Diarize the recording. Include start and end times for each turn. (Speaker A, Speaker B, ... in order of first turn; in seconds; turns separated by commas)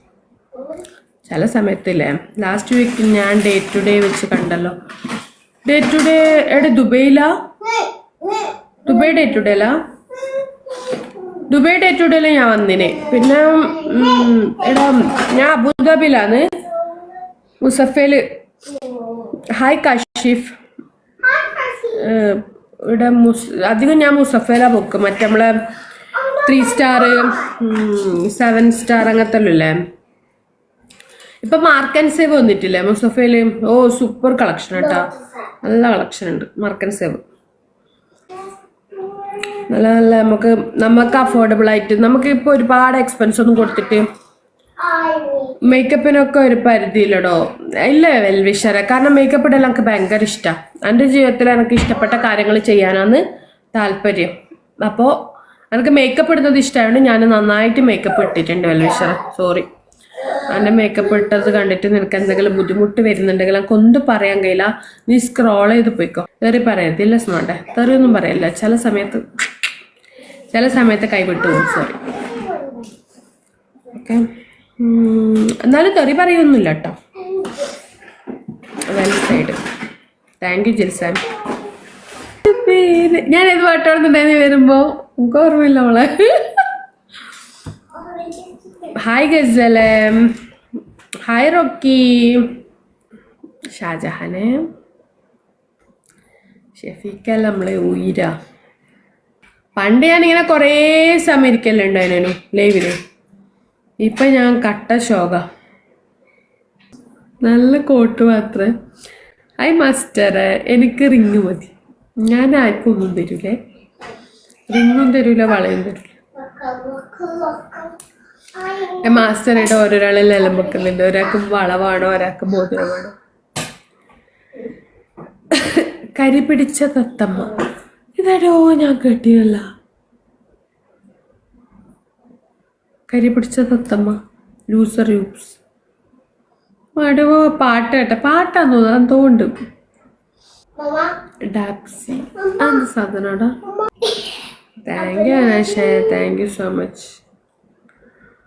Speaker A: 0.6-0.8, Speaker B: 1.3-4.7, Speaker B: 5.7-7.3, Speaker A: 7.6-9.3, Speaker B: 8.8-9.8, Speaker A: 10.2-11.4, Speaker B: 11.5-16.5, Speaker A: 12.8-15.4, Speaker A: 16.9-17.2, Speaker B: 17.6-18.2, Speaker A: 18.7-19.4, Speaker B: 19.5-20.5, Speaker A: 21.2-22.1, Speaker B: 21.9-25.6, Speaker A: 26.1-27.6, Speaker B: 26.4-29.8, Speaker B: 31.4-35.1, Speaker A: 34.8-35.4, Speaker B: 35.6-37.2, Speaker A: 38.9-39.7, Speaker B: 39.7-44.1, Speaker A: 44.8-45.8, Speaker B: 45.6-55.1, Speaker B: 55.7-59.7, Speaker A: 60.2-61.4, Speaker B: 60.4-69.2, Speaker B: 70.5-72.0, Speaker A: 71.5-72.9, Speaker B: 74.0-74.3, Speaker B: 74.8-77.0, Speaker A: 77.2-77.8, Speaker B: 78.9-79.6, Speaker B: 80.4-81.3, Speaker B: 82.4-86.7, Speaker A: 87.9-89.0, Speaker B: 89.0-90.4, Speaker B: 91.3-92.5, Speaker B: 93.7-94.6, Speaker B: 96.8-98.3, Speaker B: 99.8-103.0, Speaker B: 104.0-105.4, Speaker B: 107.4-108.7, Speaker B: 109.6-111.7, Speaker B: 112.3-113.6, Speaker B: 114.7-116.1, Speaker A: 116.3-118.0, Speaker A: 118.5-121.4, Speaker B: 119.0-123.2, Speaker B: 125.5-127.6, Speaker B: 128.2-129.7, Speaker B: 133.1-134.2, Speaker B: 134.7-135.6, Speaker B: 137.0-139.5, Speaker A: 140.8-141.2, Speaker B: 141.5-143.6, Speaker A: 143.8-144.4, Speaker B: 144.8-147.2, Speaker A: 145.0-146.3